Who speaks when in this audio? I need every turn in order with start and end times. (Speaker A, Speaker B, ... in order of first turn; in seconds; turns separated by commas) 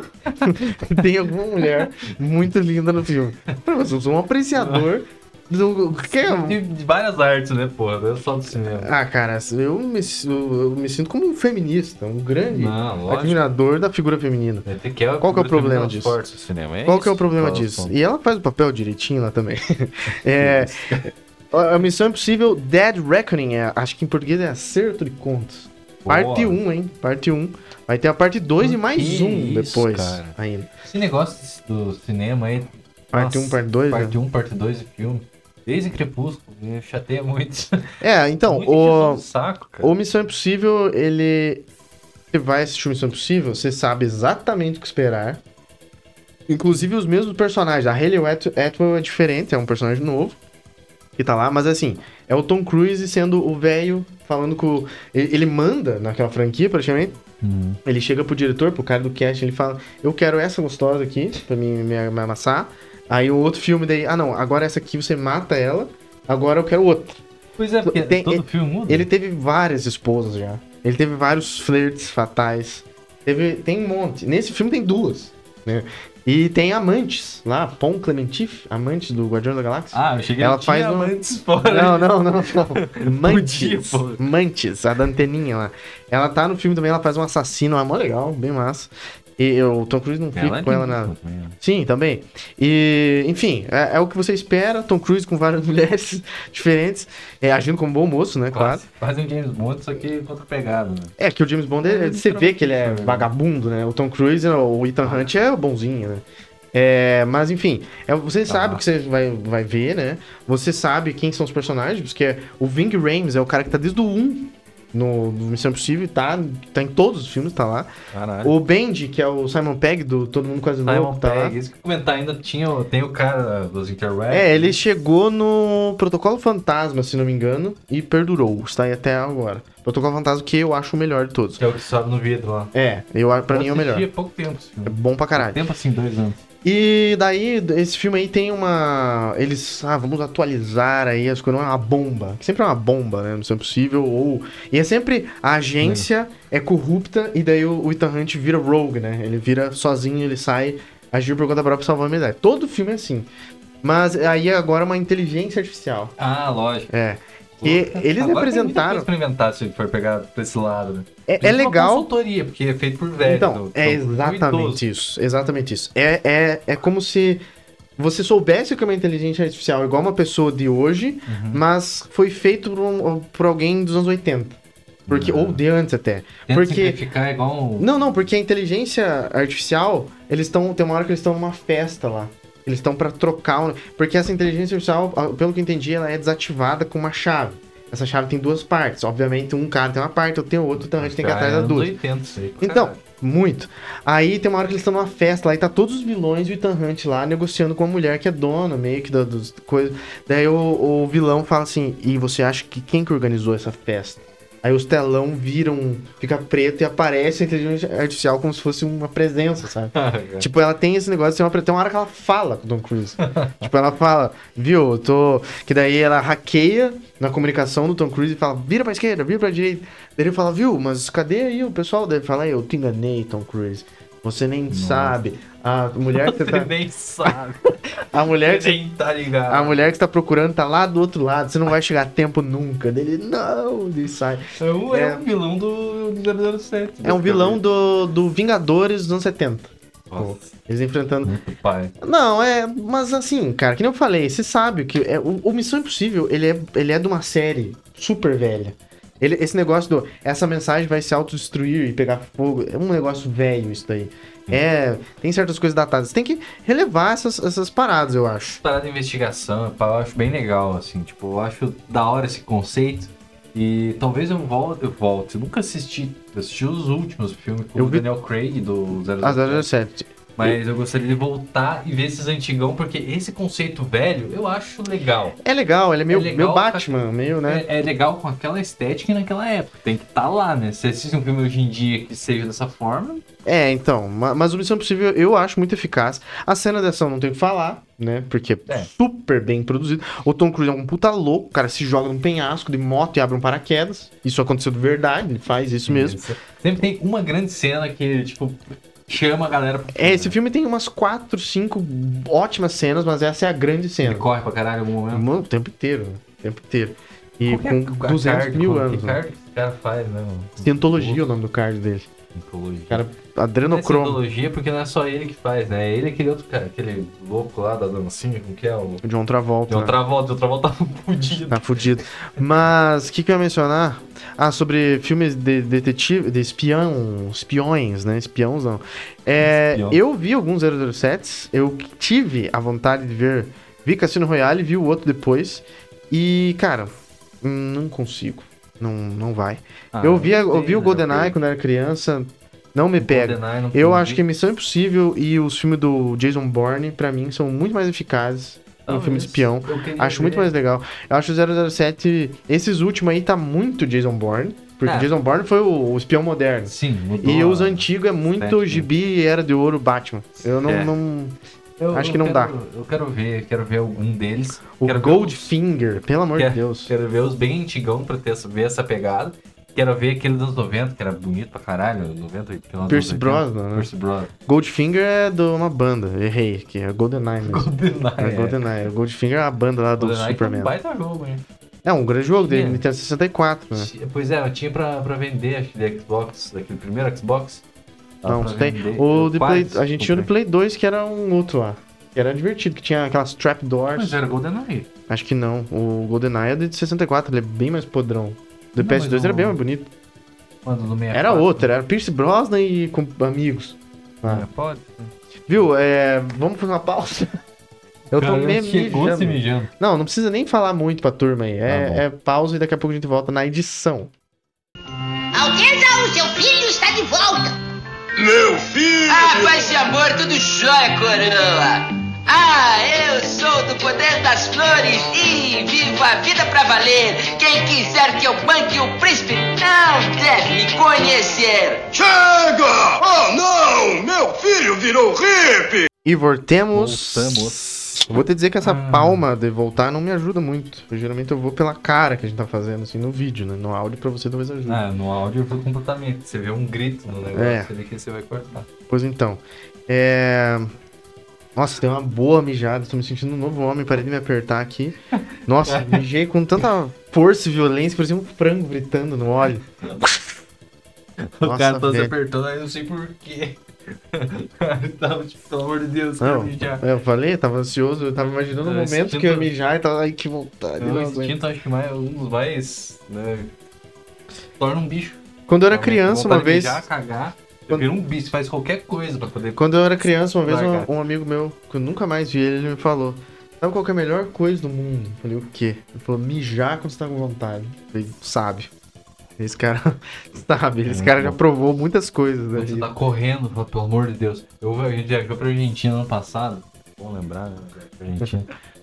Speaker A: 0.4-6.6, Speaker B: 4.6-4.9, Speaker B: 6.1-8.9, Speaker A: 8.8-14.7, Speaker B: 12.5-13.5, Speaker B: 14.7-18.0, Speaker A: 15.2-16.2, Speaker A: 16.9-30.7, Speaker B: 20.4-21.1, Speaker B: 26.0-26.6, Speaker B: 28.6-37.9, Speaker A: 33.1-34.2, Speaker A: 38.0-39.3, Speaker B: 38.5-39.9, Speaker A: 39.8-41.7, Speaker A: 42.3-45.4, Speaker A: 46.5-50.4, Speaker A: 51.2-57.2, Speaker B: 57.4-57.8, Speaker A: 57.9-67.2, Speaker B: 67.6-69.1, Speaker A: 67.8-81.1, Speaker B: 79.9-84.2, Speaker A: 81.7-98.8, Speaker B: 90.3-91.6, Speaker B: 98.5-101.1, Speaker A: 101.2-117.9, Speaker B: 101.8-103.3, Speaker B: 108.5-108.8, Speaker B: 118.1-118.5, Speaker A: 118.4-121.5, Speaker B: 120.8-124.8, Speaker A: 124.3-131.6, Speaker B: 131.6-132.7, Speaker A: 132.7-134.1, Speaker B: 133.5-136.4, Speaker A: 134.9-135.6, Speaker A: 136.6-153.3, Speaker B: 145.8-146.1, Speaker A: 153.8-156.2, Speaker B: 156.2-156.9, Speaker A: 156.9-159.1, Speaker B: 157.6-164.8, Speaker A: 161.3-162.1, Speaker A: 163.2-167.4, Speaker A: 168.0-177.0, Speaker B: 171.3-171.6, Speaker B: 175.1-175.6, Speaker B: 176.5-177.9, Speaker A: 177.8-191.9, Speaker B: 190.8-193.0, Speaker A: 192.6-226.7, Speaker B: 209.9-210.5, Speaker B: 213.2-213.7, Speaker B: 224.7-225.2, Speaker B: 226.1-229.9, Speaker A: 228.1-228.8, Speaker A: 229.5-235.2, Speaker B: 234.6-237.6, Speaker A: 237.0-241.3, Speaker B: 240.1-240.5, Speaker B: 241.2-241.9, Speaker A: 242.0-258.6, Speaker B: 258.6-269.7, Speaker A: 267.8-268.1, Speaker A: 269.2-270.6, Speaker B: 270.4-275.4, Speaker A: 275.4-277.7, Speaker B: 276.1-283.2, Speaker A: 283.4-296.2, Speaker B: 295.9-300.4, Speaker A: 299.9-304.3, Speaker B: 304.0-305.3, Speaker A: 305.1-309.2, Speaker B: 307.5-311.3, Speaker A: 310.6-312.1, Speaker B: 312.3-313.0, Speaker A: 312.9-314.2, Speaker B: 313.7-319.0, Speaker A: 319.0-320.0, Speaker B: 319.7-321.8, Speaker A: 321.5-361.4, Speaker B: 329.4-330.0, Speaker B: 339.9-341.4, Speaker B: 343.0-344.2, Speaker B: 348.9-350.5, Speaker B: 354.9-355.1, Speaker B: 356.7-357.9, Speaker B: 358.4-358.9, Speaker B: 360.6-360.9, Speaker B: 361.8-365.5, Speaker A: 361.9-362.5, Speaker A: 364.8-366.9, Speaker B: 366.4-374.3, Speaker A: 372.8-373.9, Speaker A: 374.5-380.7, Speaker B: 377.5-378.6, Speaker B: 380.0-381.4, Speaker A: 381.8-383.9, Speaker B: 382.4-382.8, Speaker B: 383.7-387.6, Speaker B: 388.2-390.3, Speaker A: 388.2-394.2, Speaker B: 393.9-394.9, Speaker A: 395.1-399.9, Speaker B: 398.8-399.6, Speaker B: 400.6-401.7, Speaker A: 401.1-404.5, Speaker B: 404.2-405.1, Speaker A: 405.5-407.4, Speaker A: 408.1-414.1, Speaker B: 408.2-409.7, Speaker B: 411.7-412.0, Speaker C: 415.3-417.6, Speaker D: 418.2-419.8, Speaker E: 419.1-431.9, Speaker D: 431.9-435.9, Speaker A: 436.1-444.8, Speaker B: 436.7-438.0, Speaker B: 438.6-439.3, Speaker B: 444.7-448.7, Speaker A: 447.3-447.7, Speaker A: 448.9-450.7, Speaker A: 451.6-460.1, Speaker B: 455.2-456.0, Speaker B: 461.4-466.8, Speaker A: 461.4-462.1, Speaker A: 466.2-471.4, Speaker B: 468.6-469.5, Speaker B: 470.8-473.5, Speaker B: 474.6-479.7, Speaker A: 475.5-476.9, Speaker A: 479.6-488.7, Speaker B: 480.4-480.9, Speaker A: 489.4-492.9, Speaker B: 490.9-491.4, Speaker B: 492.6-498.5